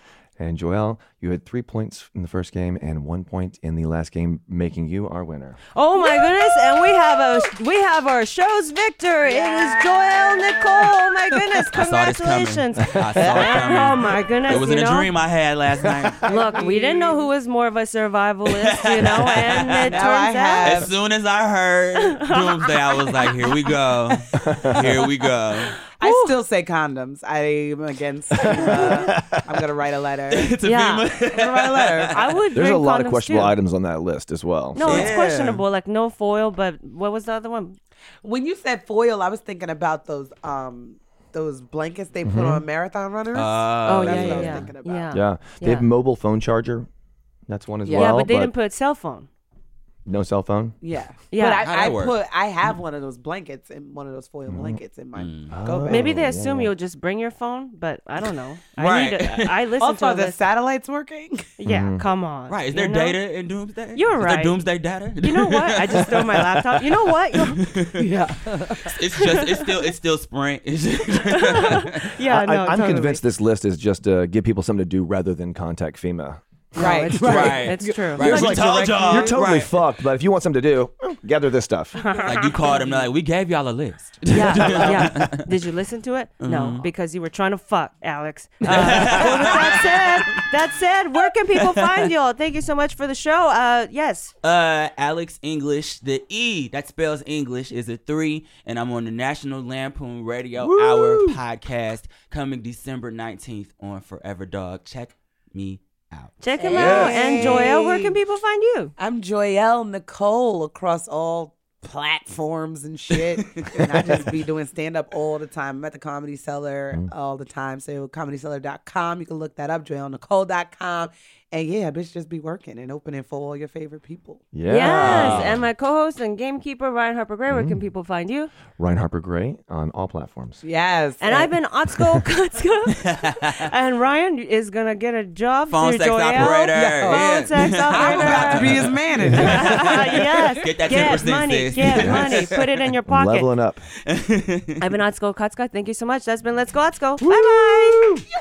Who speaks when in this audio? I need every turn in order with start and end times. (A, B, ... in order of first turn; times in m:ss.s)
0:00.4-0:05.6 A
0:05.7-0:15.1 B
0:09.3-0:10.7 C
0:11.7-0:16.2 D
0:16.2-0:17.2 C
0:16.2-0:20.9 B
0:18.5-0:20.0 D
0:19.7-0:20.9 C
0:20.6-0:25.8 D
0:22.0-0:23.7 B
0:24.4-0:24.9 A
0:25.9-0:26.4 B
0:26.0-0:30.5 C
0:28.4-0:29.4 A
0:30.3-0:32.1 D
0:30.6-0:31.1 B
0:31.3-0:32.2 C
0:32.1-0:33.6 B
0:32.5-0:35.1 A
0:34.7-0:37.8 B
0:34.8-0:35.6 D
0:38.2-0:45.1 C
0:42.2-0:42.6 A
0:43.3-0:44.7 D
0:43.8-0:45.9 B
0:45.1-0:46.9 A
0:47.5-0:48.5 A
0:47.8-0:48.2 C
0:47.9-0:49.3 B
0:50.0-0:50.8 A
0:50.8-0:56.2 C
0:51.3-0:51.7 B
0:51.6-0:52.2 D
0:54.5-0:54.8 A
0:55.2-0:55.6 D
0:55.5-0:56.7 A
0:55.9-1:00.4 B
0:58.8-0:59.6 D
0:59.8-1:01.5 C
1:01.6-1:03.2 B
1:01.7-1:02.0 A
1:02.5-1:06.7 D
1:03.9-1:04.6 B
1:05.2-1:07.6 B
1:07.3-1:08.1 D
1:08.0-1:09.0 C
1:08.8-1:12.1 D
1:09.2-1:09.6 B
1:11.3-1:13.2 B
1:12.2-1:17.3 A
1:16.7-1:18.6 B
1:16.7-1:19.3 C
1:17.2-1:19.8 D
1:18.0-1:22.0 A
1:22.0-1:22.5 B
1:22.2-1:25.4 D
1:24.3-1:34.3 B
1:24.5-1:25.0 C
1:26.4-1:26.9 D
1:28.7-1:30.4 D
1:28.7-1:29.5 C
1:31.6-1:32.1 D
1:34.4-1:47.6 D
1:40.6-1:41.4 C
1:46.4-1:48.9 B
1:46.6-1:48.2 C
1:49.0-2:05.4 C
1:53.2-1:54.2 D
2:04.5-2:05.6 A
2:04.6-2:08.5 B
2:07.5-2:07.8 A
2:08.8-2:10.6 A
2:10.6-2:11.5 C
2:11.2-2:18.8 B
2:13.0-2:13.7 D
2:15.7-2:22.6 D
2:16.4-2:21.0 C
2:19.3-2:23.5 B
2:21.9-2:23.9 A
2:24.0-2:24.8 D
2:24.8-2:28.2 B
2:27.3-2:28.2 A